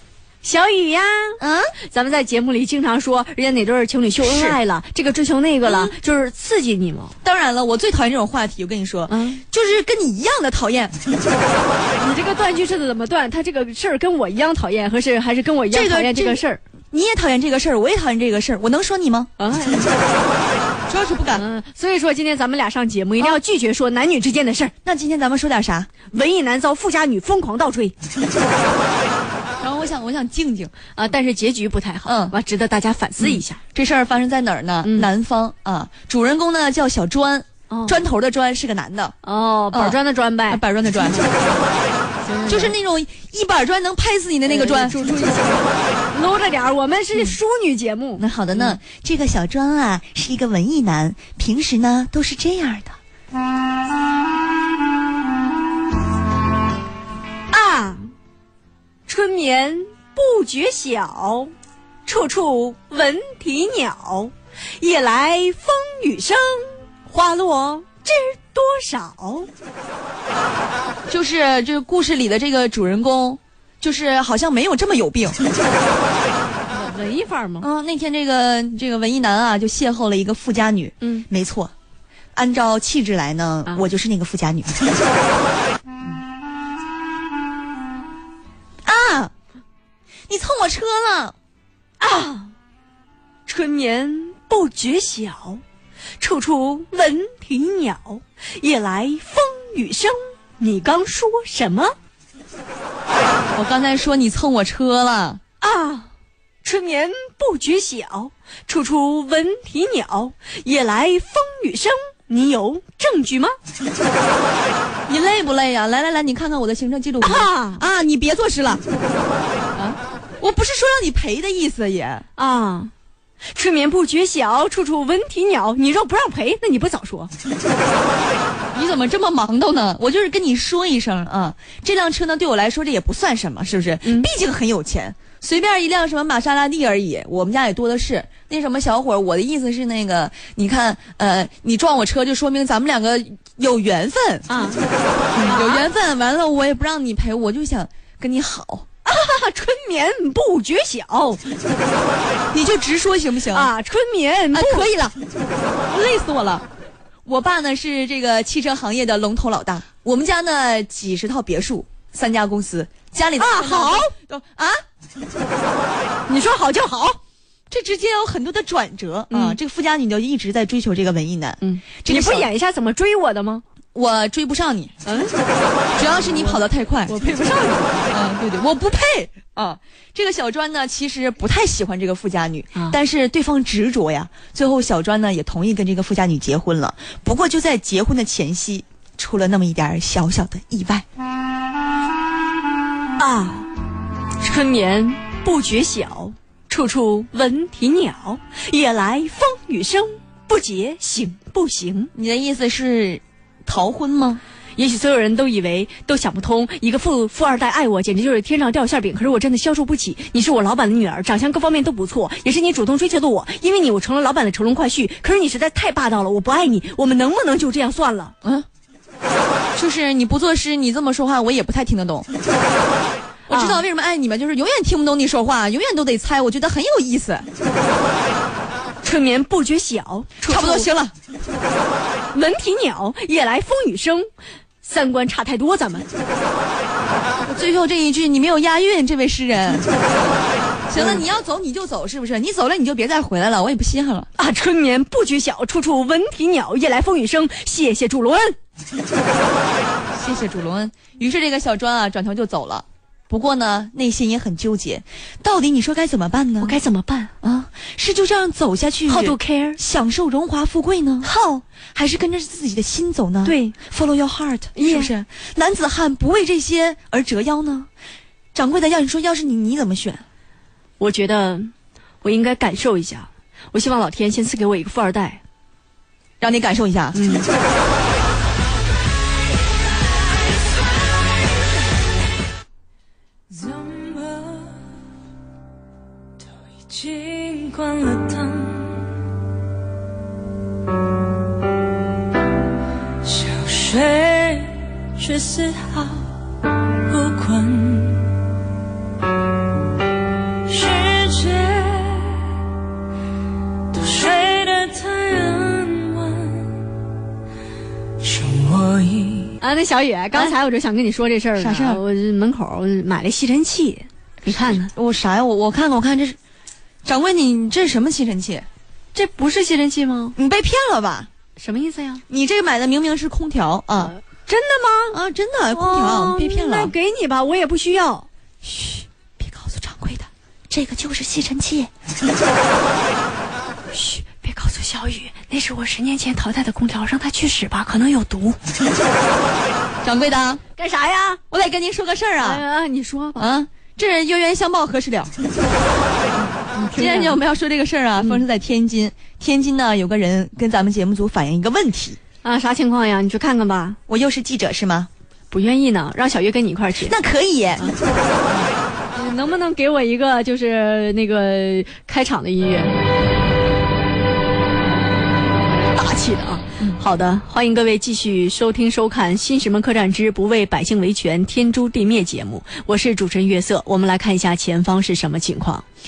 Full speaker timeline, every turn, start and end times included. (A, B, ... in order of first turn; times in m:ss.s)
0:00.4-0:07.1 A
0:01.4-0:01.7 B
0:04.2-0:04.6 B
0:05.6-0:05.9 B
0:07.2-0:11.0 B
0:09.1-0:09.4 A
0:12.0-0:16.6 A
0:15.7-0:16.4 B
0:16.9-0:19.3 B
0:19.4-0:20.0 A
0:20.9-0:21.4 B
0:21.3-0:24.7 A
0:24.8-0:25.9 B
0:26.1-0:27.9 A
0:29.6-0:30.7 B
0:30.9-0:33.6 A
0:32.0-0:32.3 B
0:33.2-0:39.1 B
0:34.8-0:35.1 A
0:37.7-0:38.0 A
0:39.2-0:40.6 A
0:39.7-0:40.0 B
0:40.5-0:41.2 B
0:42.2-0:42.7 A
0:42.5-0:45.0 B
0:44.4-0:48.8 A
0:48.2-0:53.0 B
0:57.5-0:58.1 A
0:59.1-1:01.5 A
1:02.0-1:09.5 A
1:11.1-1:15.4 B
1:16.7-1:17.7 A
1:17.6-1:21.7 B
1:22.3-1:24.7 B
1:28.8-1:29.3 B
1:30.3-1:31.3 B
1:32.0-1:32.5 A
1:33.5-1:35.6 A
1:36.2-1:41.9 A
1:43.5-1:45.4 B
1:45.6-1:46.1 A
1:46.6-1:53.5 A
1:55.1-1:58.8 B
1:57.2-1:57.8 A
2:00.4-2:02.2 B
2:02.4-2:02.9 A
2:03.5-2:07.3 A
2:08.7-2:24.4 B
2:24.5-2:25.8 A
2:25.3-2:28.8 B
2:29.0-2:31.5 A
2:32.5-2:33.7 B
2:33.5-2:34.9 A
2:34.5-2:35.1 B
2:35.9-2:36.6 B
2:37.2-2:44.8 B
2:43.4-2:44.1 A
2:46.3-2:47.2 A
2:47.7-2:52.5 B
2:49.3-2:49.6 A
2:51.6-2:53.6 A
2:53.9-2:54.9 B
2:55.0-2:55.4 A
2:55.9-2:58.2 A
2:56.0-2:57.1 B
2:58.1-3:11.0 B
3:13.2-3:13.7 A
3:14.4-3:22.1 A
3:22.1-3:24.4 B
3:24.8-3:38.3 A
3:39.7-3:42.3 B
3:43.5-3:47.5 B
3:43.5-3:43.8 A
3:49.0-3:50.9 A
3:50.4-3:51.1 B
3:52.3-3:54.3 A
3:54.8-3:56.1 A
3:57.4-4:04.3 B
4:00.9-4:01.2 A
4:04.4-4:08.6 A
4:10.1-4:16.8 B
4:16.6-4:17.3 A
4:17.4-4:21.3 B
4:19.1-4:19.8 A
4:21.2-4:21.6 A
4:21.9-4:27.9 B
4:23.4-4:23.8 A
4:24.7-4:25.1 A
4:28.5-4:30.2 B
4:31.0-4:31.7 A
4:32.2-4:35.4 A
4:36.4-4:37.2 B
4:37.1-4:37.5 A
4:46.9-4:48.9 C
4:53.2-4:56.2 C
4:57.1-4:58.2 C
5:01.9-5:02.2 C
5:04.1-5:06.7 A
5:08.4-5:09.1 C
5:09.6-5:14.9 A
5:11.6-5:12.0 B
5:14.7-5:16.4 B
5:17.0-5:18.6 B
5:19.1-5:20.4 A
5:20.4-5:21.3 B
5:21.6-5:22.2 A
5:22.3-5:24.2 B
5:24.4-5:25.2 A
5:25.1-5:26.9 B
5:25.7-5:28.3 A
5:28.6-5:31.9 B
5:33.9-5:38.6 A
5:40.0-5:40.6 B
5:40.8-5:41.4 A
5:41.5-5:42.6 B
5:42.4-5:43.5 A
5:43.4-5:45.3 B
5:46.4-5:52.2 B
5:46.7-5:47.4 A
5:48.2-5:48.4 A
5:52.4-5:54.0 A
5:54.1-5:55.1 B
5:55.5-5:57.1 A
5:57.0-5:57.8 B
5:59.1-6:03.0 A
6:05.8-6:15.8 A